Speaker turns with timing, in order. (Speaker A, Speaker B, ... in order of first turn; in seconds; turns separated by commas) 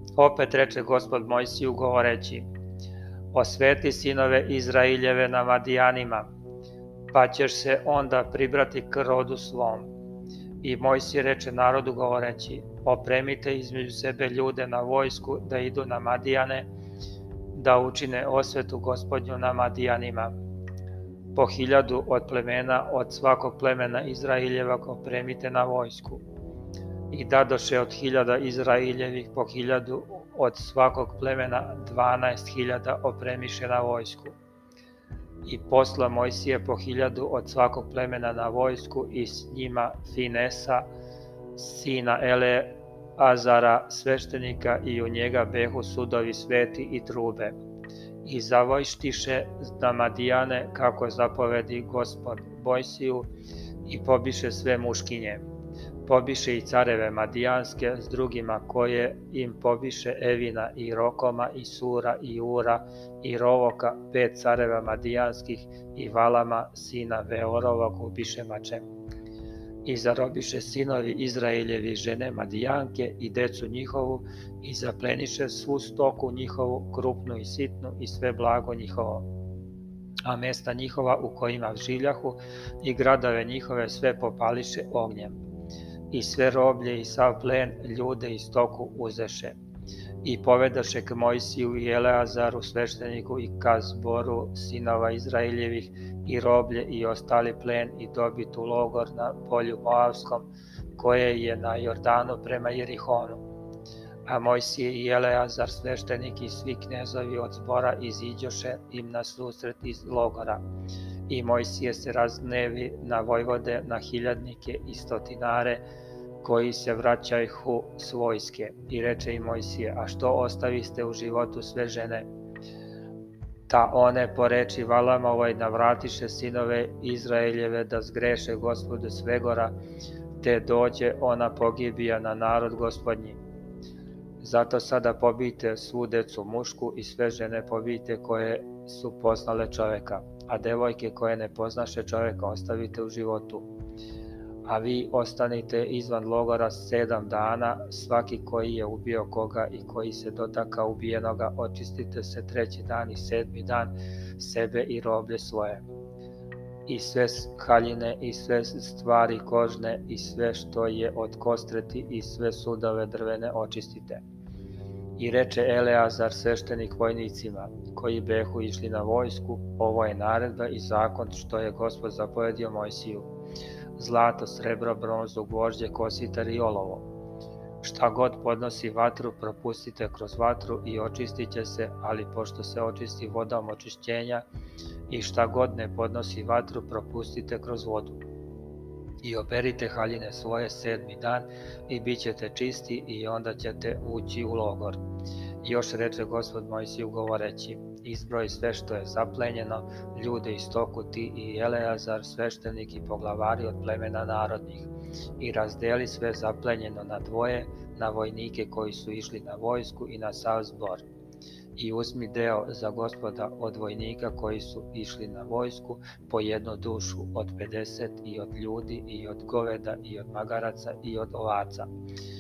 Speaker A: 0.2-2.5, Speaker A: 3.3-6.3, Speaker A: 7.1-9.9, Speaker A: 10.6-16.7, Speaker A: 17.5-20.3, Speaker A: 21.3-26.2, Speaker A: 27.1-34.4, Speaker A: 35.5-40.9, Speaker A: 41.6-47.6, Speaker A: 48.2-53.3, Speaker A: 53.9-55.4, Speaker A: 56.0-68.8, Speaker A: 69.8-79.3, Speaker A: 80.3-85.4, Speaker A: 86.1-89.6, Speaker A: 90.2-103.4, Speaker A: 104.3-110.6, Speaker A: 111.3-115.8, Speaker A: 116.4-122.3, Speaker A: 123.7-129.8, Speaker A: 130.4-133.4, Speaker A: 134.4-143.7, Speaker A: 144.7-155.8, Speaker A: 156.9-164.2, Speaker A: 165.2-173.3, Speaker A: 174.0-177.1, Speaker A: 177.8-184.5, Speaker A: 185.1-188.2, Speaker A: 189.2-195.0, Speaker A: 195.6-211.1, Speaker A: 211.8-221.9